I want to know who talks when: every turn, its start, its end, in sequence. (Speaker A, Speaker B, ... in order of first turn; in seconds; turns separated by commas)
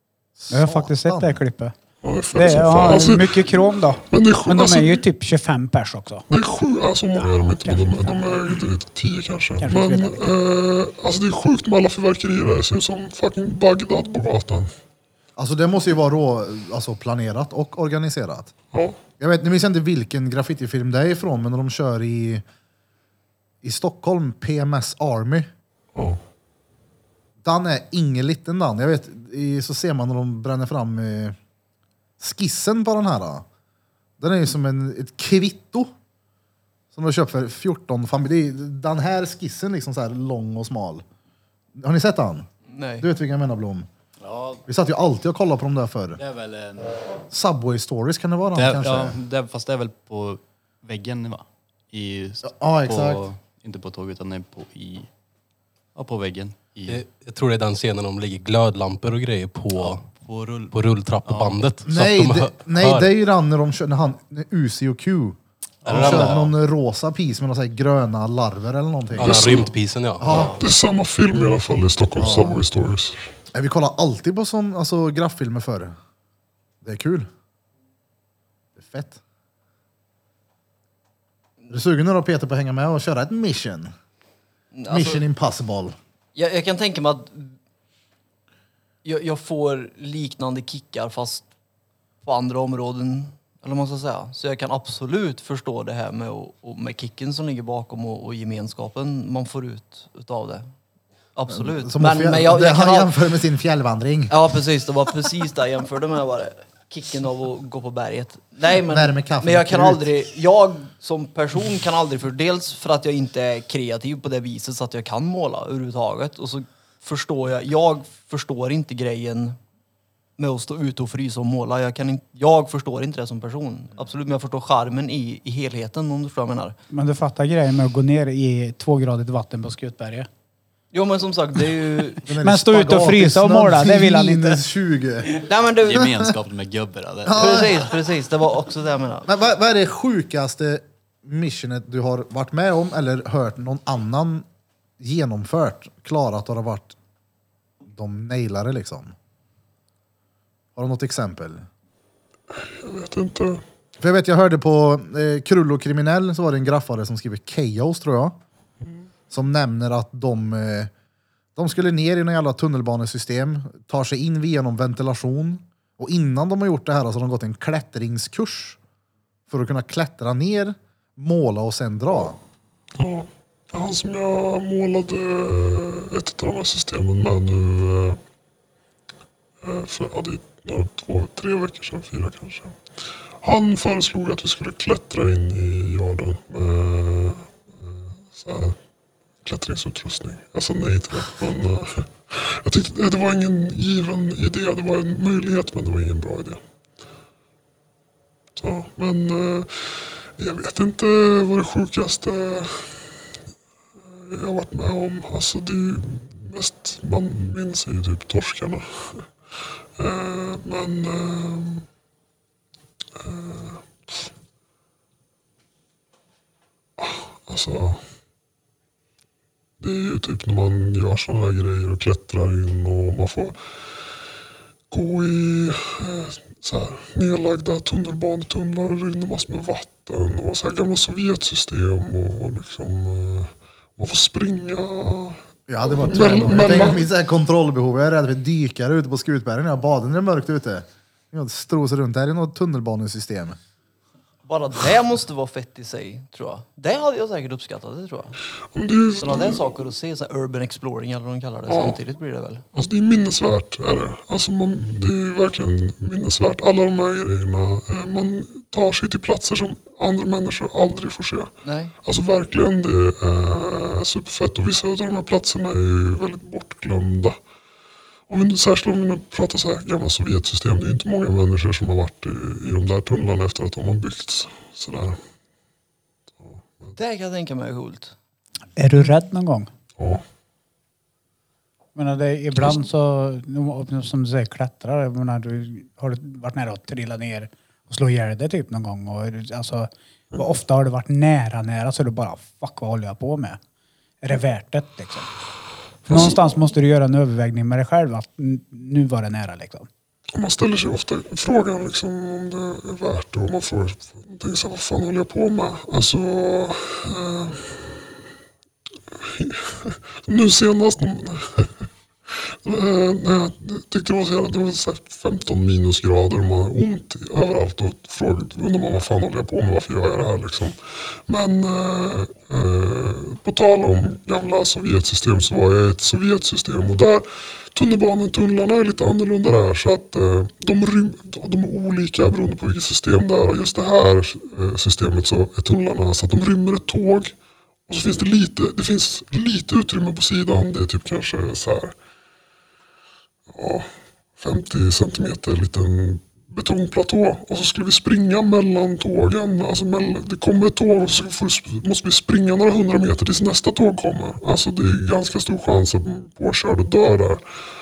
Speaker A: 0.4-1.4, Speaker B: 0.5-1.8, Speaker C: 2.0-5.0, Speaker B: 2.3-6.2, Speaker C: 6.3-14.7, Speaker B: 7.3-8.2, Speaker B: 9.6-10.2, Speaker A: 15.4-18.5, Speaker C: 18.7-19.0, Speaker A: 19.2-22.4, Speaker A: 23.6-25.5, Speaker C: 25.9-26.2, Speaker A: 27.4-31.4, Speaker A: 32.2-33.5, Speaker A: 34.2-35.9, Speaker A: 36.9-41.0, Speaker A: 41.8-42.5, Speaker D: 42.7-43.1, Speaker A: 43.0-43.9, Speaker E: 44.2-44.6, Speaker A: 44.7-46.2, Speaker E: 46.2-47.2, Speaker A: 47.3-49.2, Speaker E: 48.5-55.1, Speaker A: 52.4-53.2, Speaker E: 56.0-57.0, Speaker F: 56.9-60.1, Speaker E: 59.8-61.6, Speaker F: 60.7-63.1, Speaker A: 61.9-69.6, Speaker E: 65.8-66.5, Speaker F: 65.9-66.5, Speaker F: 69.2-70.6, Speaker E: 69.3-69.7, Speaker A: 70.2-70.6, Speaker C: 70.6-73.2, Speaker A: 72.2-72.6, Speaker A: 73.5-76.0, Speaker A: 76.8-77.3, Speaker A: 78.8-79.2, Speaker A: 81.7-83.9, Speaker D: 84.7-85.3, Speaker A: 84.9-86.0, Speaker D: 86.3-87.5, Speaker D: 89.0-91.5, Speaker D: 92.2-100.7, Speaker D: 101.3-103.1, Speaker A: 101.5-104.3, Speaker D: 104.3-119.6, Speaker A: 108.9-110.1, Speaker D: 120.4-126.8, Speaker B: 126.9-130.3, Speaker D: 130.9-132.2, Speaker A: 132.2-135.4, Speaker B: 132.4-134.6, Speaker D: 135.4-136.2, Speaker E: 135.8-137.9, Speaker A: 137.2-137.8, Speaker D: 137.3-139.3, Speaker A: 139.3-144.5, Speaker A: 145.0-147.0, Speaker A: 147.9-149.1, Speaker A: 150.8-151.7, Speaker C: 152.7-153.6, Speaker A: 154.0-158.4, Speaker A: 159.3-160.9, Speaker A: 161.6-168.8, Speaker A: 169.5-172.4, Speaker C: 173.0-178.2, Speaker C: 179.6-182.8, Speaker C: 183.4-188.8, Speaker C: 189.4-196.6, Speaker C: 198.6-203.1, Speaker C: 204.1-209.3, Speaker C: 210.0-211.9, Speaker C: 213.2-214.3, Speaker C: 217.0-218.0, Speaker C: 219.8-223.6, Speaker C: 224.9-237.0, Speaker A: 235.7-243.6, Speaker D: 236.1-237.0, Speaker D: 244.5-248.4, Speaker C: 248.7-249.6, Speaker D: 249.2-252.6, Speaker C: 251.7-252.0, Speaker C: 252.7-267.4, Speaker D: 261.6-261.9, Speaker C: 268.3-275.2, Speaker C: 276.4-276.9, Speaker D: 277.0-278.1, Speaker B: 278.8-279.7, Speaker C: 280.0-280.2, Speaker B: 281.9-293.6, Speaker B: 294.2-295.3, Speaker B: 296.1-299.9, Speaker C: 296.1-296.5, Speaker C: 300.3-308.1, Speaker C: 309.1-320.8, Speaker C: 321.3-337.4, Speaker C: 337.9-341.9, Speaker C: 343.5-357.4